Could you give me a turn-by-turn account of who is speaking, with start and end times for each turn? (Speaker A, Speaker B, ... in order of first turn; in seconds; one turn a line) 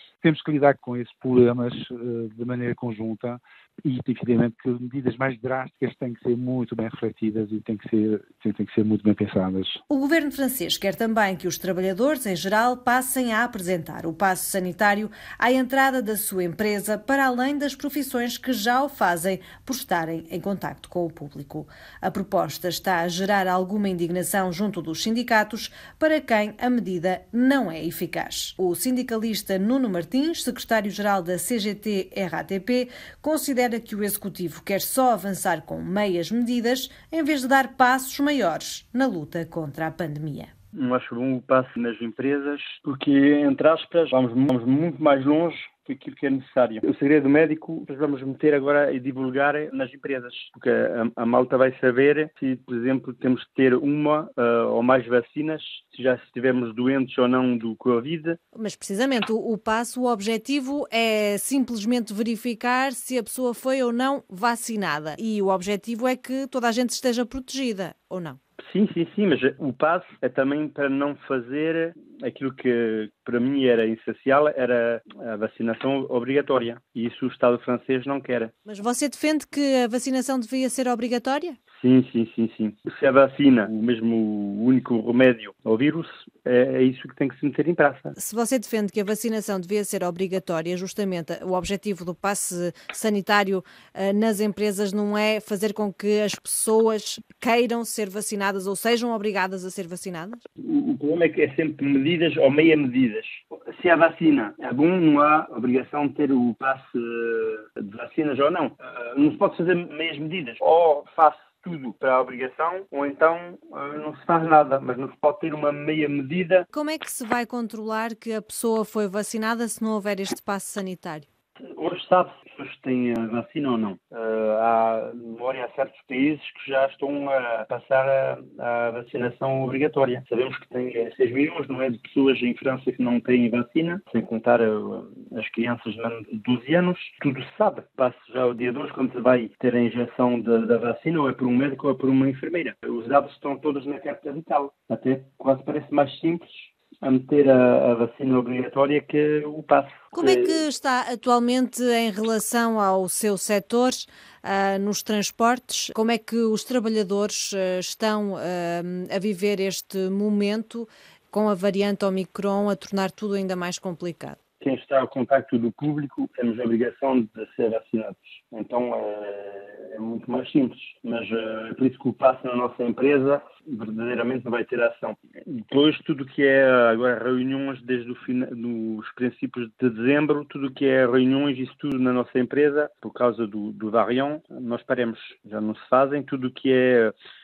Speaker A: 0.2-9.8
Speaker B: 9.9-40.5
Speaker C: 40.7-58.4
Speaker B: 58.5-68.4
Speaker C: 68.6-78.5
Speaker B: 78.6-81.6
Speaker C: 81.8-88.1
Speaker B: 88.2-100.4
Speaker C: 100.6-116.7
Speaker B: 116.7-121.3
Speaker C: 121.7-150.6
Speaker B: 150.1-164.4
Speaker C: 164.6-187.1